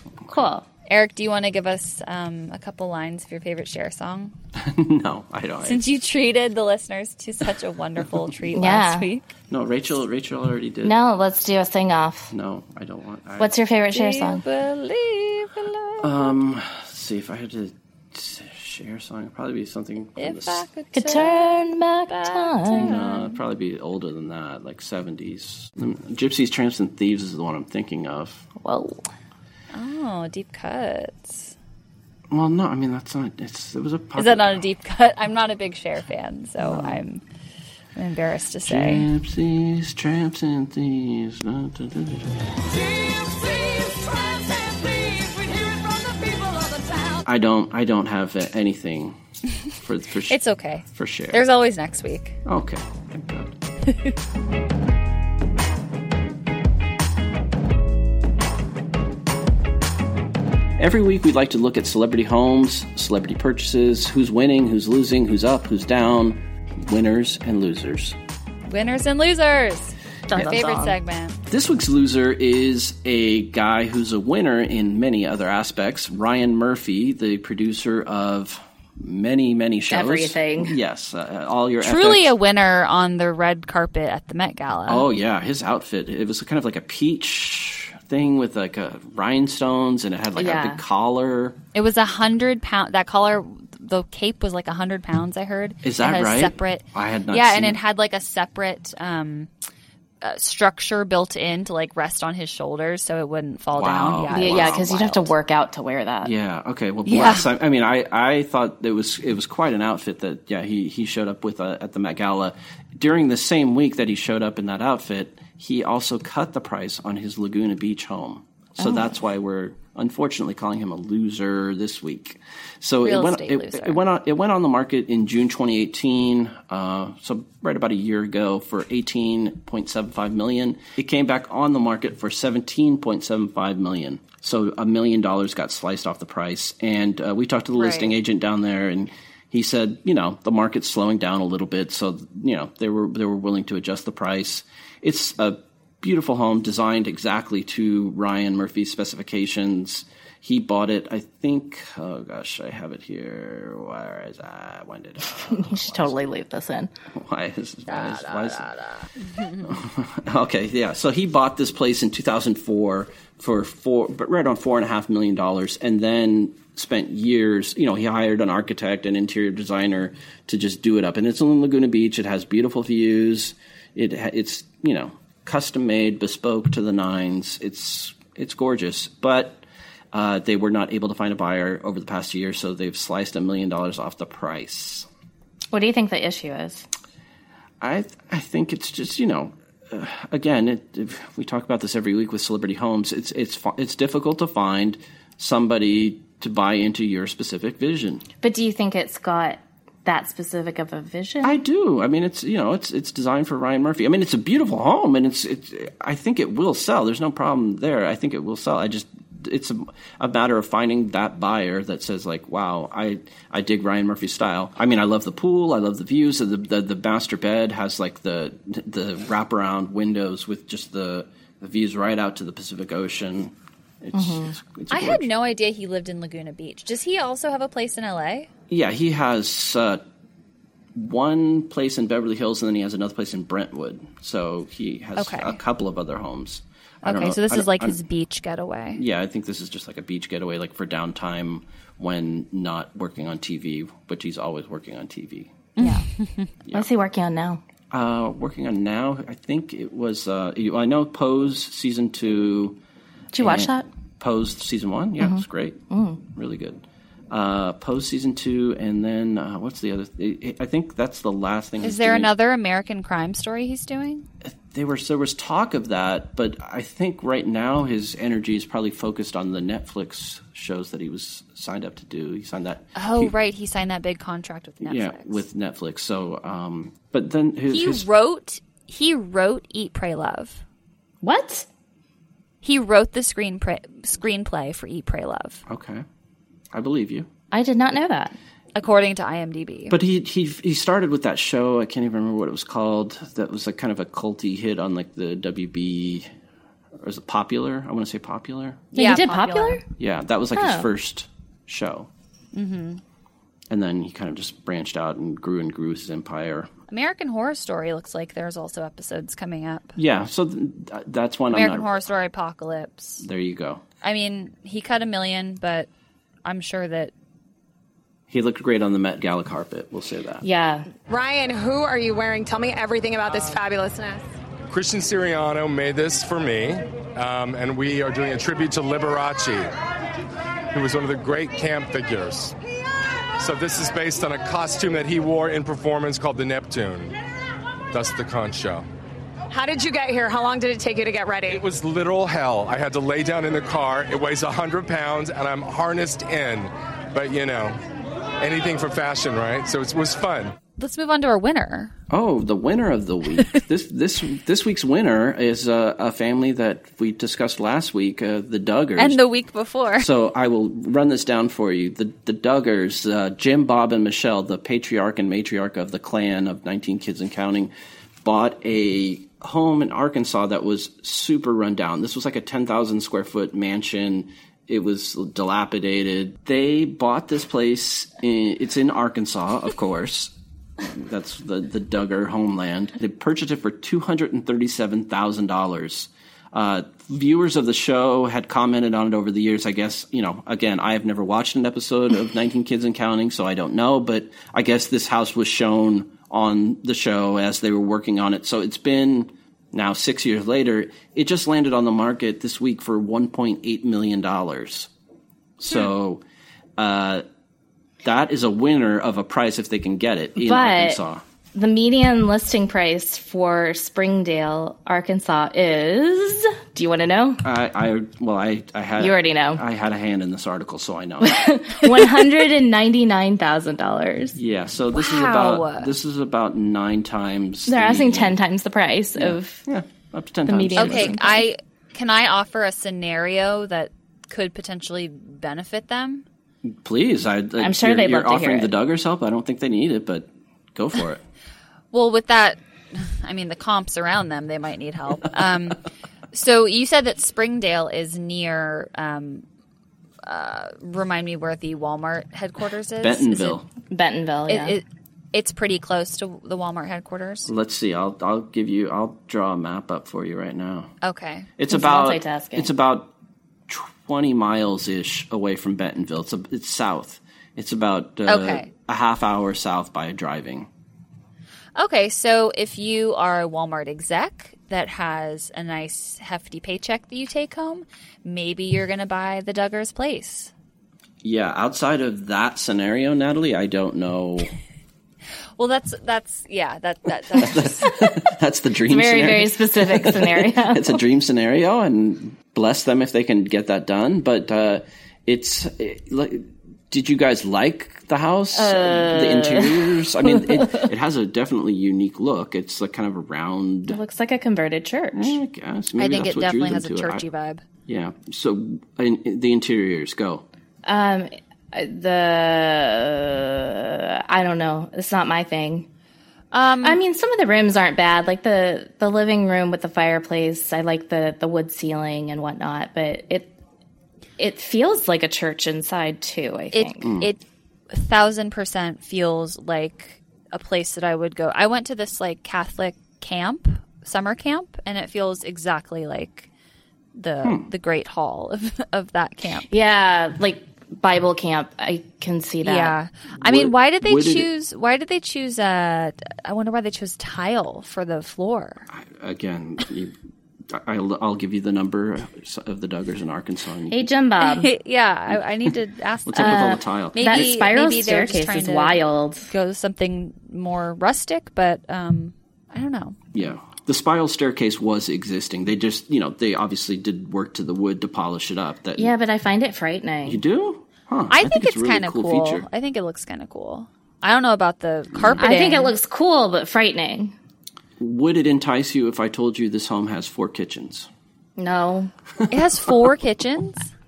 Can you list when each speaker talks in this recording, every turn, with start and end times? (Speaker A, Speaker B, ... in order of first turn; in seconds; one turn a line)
Speaker A: 0.3-0.7
Speaker B: 0.9-4.3
Speaker C: 4.6-5.9
Speaker B: 5.6-9.3
Speaker A: 8.5-9.1
Speaker C: 9.5-11.0
Speaker A: 10.8-12.3
Speaker C: 12.3-13.6
Speaker A: 13.4-14.4
Speaker B: 13.9-16.3
Speaker C: 16.0-20.6
Speaker B: 20.2-23.4
Speaker A: 20.9-22.9
Speaker C: 22.7-28.5
Speaker A: 28.6-29.1
Speaker B: 29.7-31.5
Speaker C: 32.3-34.6
Speaker B: 34.2-37.2
Speaker A: 36.7-36.9
Speaker B: 38.0-39.1
Speaker C: 38.6-42.4
Speaker C: 47.2-49.2
Speaker C: 49.8-51.4
Speaker B: 50.3-52.4
Speaker C: 52.5-53.5
Speaker B: 53.9-54.1
Speaker C: 60.8-68.2
Speaker B: 68.7-71.4
Speaker A: 70.3-71.0
Speaker C: 71.5-82.3
Speaker A: 79.9-80.8
Speaker B: 81.8-85.0
Speaker C: 84.9-91.6
Speaker A: 90.4-90.8
Speaker B: 91.7-99.5
Speaker C: 95.8-97.8
Speaker B: 100.2-105.3
Speaker C: 103.8-104.8
Speaker A: 104.3-106.3
Speaker C: 106.2-156.2
Speaker B: 107.1-107.5
Speaker B: 123.0-124.0
Speaker B: 137.8-138.2
Speaker A: 155.5-156.9
Speaker C: 157.1-158.7
Speaker B: 157.9-159.7
Speaker C: 159.6-185.1
Speaker A: 185.7-186.9
Speaker C: 187.8-198.2
Speaker A: 198.4-201.6
Speaker C: 201.4-225.3
Speaker A: 224.2-224.5
Speaker B: 224.9-228.5
Speaker C: 228.7-230.0
Speaker C: 230.9-238.0
Speaker B: 235.2-235.6
Speaker B: 237.0-239.0
Speaker C: 238.9-245.7
Speaker B: 245.8-246.5
Speaker A: 245.8-246.1
Speaker A: 246.7-247.6
Speaker C: 247.9-252.8
Speaker A: 253.3-253.9
Speaker C: 253.4-262.3
Speaker A: 255.2-256.2
Speaker B: 261.8-264.3
Speaker C: 264.4-273.3
Speaker B: 272.9-275.4
Speaker C: 274.8-278.1
Speaker B: 277.7-280.6
Speaker A: 281.2-281.7
Speaker B: 282.6-285.6
Speaker C: 285.7-286.1
Speaker C: 286.7-287.3
Speaker A: 287.5-288.4
Speaker B: 288.8-290.0
Speaker C: 289.9-296.3
Speaker C: 297.0-298.9
Speaker A: 298.9-299.8
Speaker B: 298.9-299.8
Speaker C: 300.0-302.1
Speaker A: 300.6-300.9
Speaker B: 302.5-303.0
Speaker C: 303.7-306.7
Speaker B: 306.9-310.0
Speaker C: 310.0-311.9
Speaker B: 311.5-313.2
Speaker C: 313.2-313.8
Speaker B: 314.0-315.9
Speaker B: 316.4-317.1
Speaker C: 318.3-320.4
Speaker A: 320.4-320.9
Speaker D: 321.1-324.2
Speaker E: 324.7-329.8
Speaker E: 330.7-332.6
Speaker E: 333.4-337.1
Speaker E: 337.9-338.9
Speaker D: 339.5-341.6
Speaker E: 341.5-347.8
Speaker E: 348.4-350.6
Speaker B: 350.8-351.9
Speaker C: 352.1-359.2
Speaker B: 359.0-360.1
Speaker C: 360.0-367.7
Speaker C: 368.2-404.9
Speaker C: 405.6-406.2
Speaker C: 406.8-407.2
Speaker C: 408.0-411.2
Speaker A: 410.4-411.0
Speaker A: 411.6-417.4
Speaker C: 417.4-421.5
Speaker A: 419.0-419.6
Speaker A: 421.2-424.4
Speaker C: 424.4-428.4
Speaker B: 424.9-425.9
Speaker A: 427.7-429.6
Speaker C: 429.2-431.2
Speaker A: 430.5-431.4
Speaker B: 430.8-436.2
Speaker C: 436.6-441.2
Speaker A: 437.6-438.7
Speaker B: 441.9-445.8
Speaker B: 446.3-449.4
Speaker B: 450.2-453.6
Speaker C: 453.0-453.7
Speaker A: 453.9-454.8
Speaker B: 454.5-457.5
Speaker C: 457.5-460.9
Speaker B: 461.0-461.5
Speaker C: 461.6-463.1
Speaker A: 461.7-462.7
Speaker C: 463.7-470.7
Speaker B: 468.3-468.7
Speaker B: 471.8-480.5
Speaker C: 481.2-484.5
Speaker B: 485.6-487.9
Speaker C: 487.4-504.0
Speaker A: 488.9-491.0
Speaker A: 498.5-500.9
Speaker A: 503.9-505.4
Speaker C: 505.1-507.2
Speaker B: 506.0-507.6
Speaker C: 507.9-510.4
Speaker A: 510.9-515.9
Speaker B: 516.5-517.0
Speaker A: 516.8-523.5
Speaker A: 524.4-527.1
Speaker B: 526.7-536.5
Speaker C: 527.0-527.3
Speaker B: 537.1-539.7
Speaker C: 537.4-537.7
Speaker A: 539.7-543.0
Speaker B: 542.6-548.9
Speaker C: 543.4-544.5
Speaker C: 548.9-550.1
Speaker C: 550.7-554.1
Speaker A: 553.9-554.7
Speaker B: 554.4-563.2
Speaker C: 556.3-557.6
Speaker A: 556.4-559.5
Speaker C: 563.3-569.1
Speaker A: 569.0-570.4
Speaker C: 570.2-572.7
Speaker B: 571.3-575.9
Speaker C: 575.1-575.6
Speaker A: 575.4-577.3
Speaker C: 578.0-581.1
Speaker A: 581.6-582.1
Speaker B: 582.5-583.9